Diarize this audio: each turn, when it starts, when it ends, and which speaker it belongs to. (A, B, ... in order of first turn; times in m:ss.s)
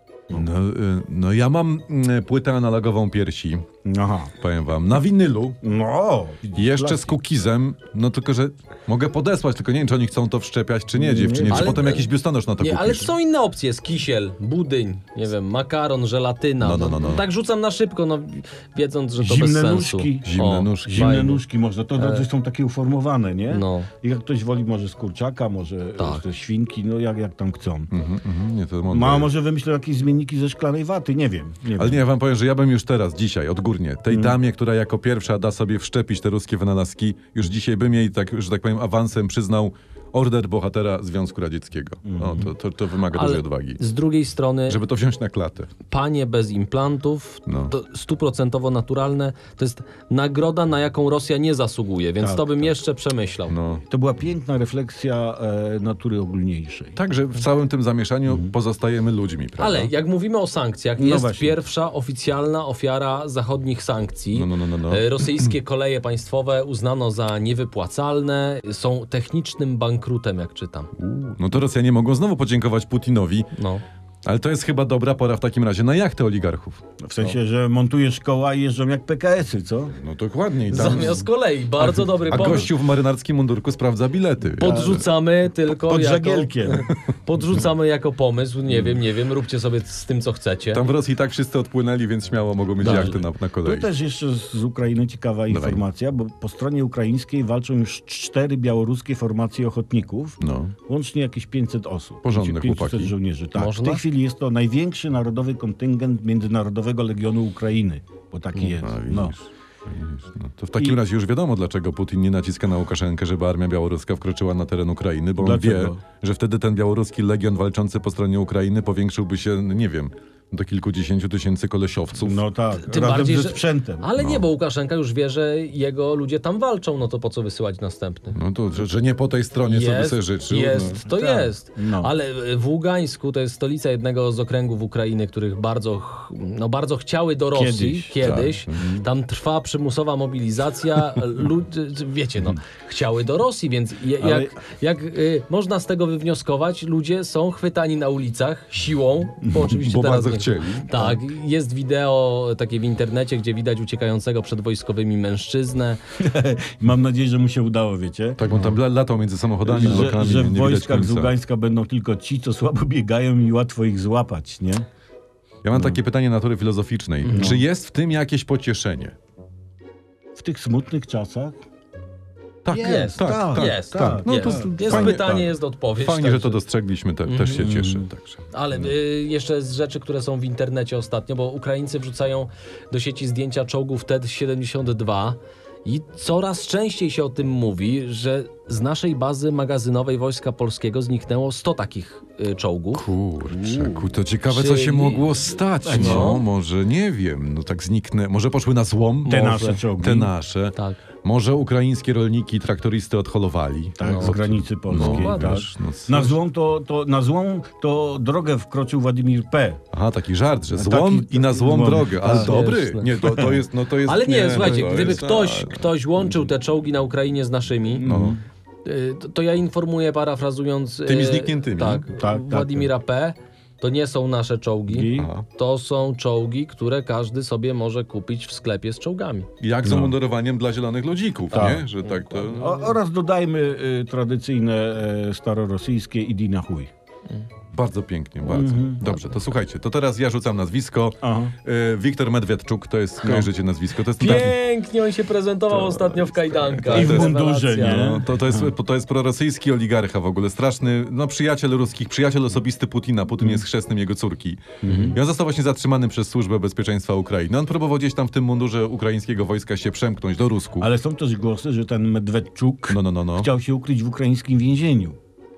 0:00.3-0:03.6 A
0:03.8-0:04.3 B
0:04.4-0:05.6 A
0:05.6-0:07.2 B
0:06.6-0:13.1 A
0:10.9-0:11.8 B
0:11.5-0:21.4 C
0:16.6-0:17.2 A
0:19.2-0:27.9 B
0:20.2-0:21.2 A
0:22.0-0:22.2 C
0:23.5-0:23.9 C
0:26.0-0:26.2 C
0:27.9-0:29.3 A
0:28.9-0:32.0 B
0:31.8-0:43.8 A
0:34.1-0:34.4 B
0:42.0-0:42.5 B
0:43.1-0:44.8 C
0:44.7-0:45.7 A
0:45.9-0:53.5 C
0:47.5-0:47.7 A
0:52.2-0:52.8 B
0:53.5-0:53.8 A
0:53.9-0:57.0 B
0:57.0-0:59.9 A
0:58.3-0:58.5 B
0:59.6-1:10.9 C
1:01.0-1:01.6 B
1:04.3-1:05.5 A
1:11.0-1:13.5 A
1:13.6-1:13.8 C
1:14.2-1:16.8 A
1:17.0-1:20.0 B
1:20.0-1:21.2 A
1:20.7-1:22.7 C
1:21.8-1:25.0 A
1:24.6-1:30.8 C
1:24.6-1:25.1 B
1:25.7-1:26.9 B
1:30.7-1:33.9 A
1:32.8-1:33.2 C
1:32.8-1:49.4 B
1:35.5-1:35.8 A
1:40.4-1:40.8 A
1:42.2-1:43.1 A
1:43.6-1:44.0 C
1:48.8-2:02.4 A
1:55.4-1:56.0 B
2:02.2-2:04.1 B
2:02.9-2:08.4 C
2:04.2-2:04.4 A
2:08.3-2:11.0 A
2:09.7-2:36.0 C
2:11.0-2:12.1 B
2:17.5-2:18.2 B
2:18.2-2:19.0 A
2:24.2-2:24.5 B
2:29.4-2:29.8 B
2:29.7-2:30.9 A
2:36.2-2:38.8 B
2:38.4-2:41.3 A
2:39.6-2:44.9 B
2:45.6-2:49.2 A
2:47.2-2:47.6 C
2:47.3-2:47.6 B
2:50.4-2:51.6 B
2:52.6-2:58.5 A
2:52.7-2:55.4 B
2:52.8-2:56.6 C
2:57.3-2:57.7 C
2:57.6-2:58.1 B
2:58.5-3:13.0 C
3:12.9-3:19.5 A
3:13.5-3:14.1 B
3:14.5-3:16.5 C
3:15.8-3:16.4 B
3:19.2-3:19.8 C
3:19.3-3:20.3 B
3:20.0-3:26.4 A
3:24.0-3:29.8 B
3:24.0-3:24.4 C
3:24.9-3:25.7 C
3:29.9-3:35.9 A
3:30.7-3:32.7 B
3:32.2-3:38.1 C
3:33.2-3:33.6 B
3:34.7-3:35.1 B
3:38.0-3:38.4 B
3:38.1-3:38.4 A
3:38.8-3:49.5 C
3:41.1-3:42.1 A
3:42.2-3:42.9 B
3:44.9-3:45.3 B
3:45.2-3:45.5 A
3:49.6-3:52.8 A
3:49.8-3:50.2 B
3:51.5-3:51.9 B
3:51.5-3:52.8 C
3:52.6-3:56.9 B
3:57.7-4:04.6 A
3:58.5-3:59.0 B
4:01.2-4:01.6 B
4:03.2-4:03.5 B
4:04.2-4:08.2 C
4:05.9-4:20.9 A
4:06.9-4:08.7 B
4:14.8-4:15.2 B
4:14.9-4:15.1 C
4:20.8-4:25.2 B
4:22.9-4:23.5 A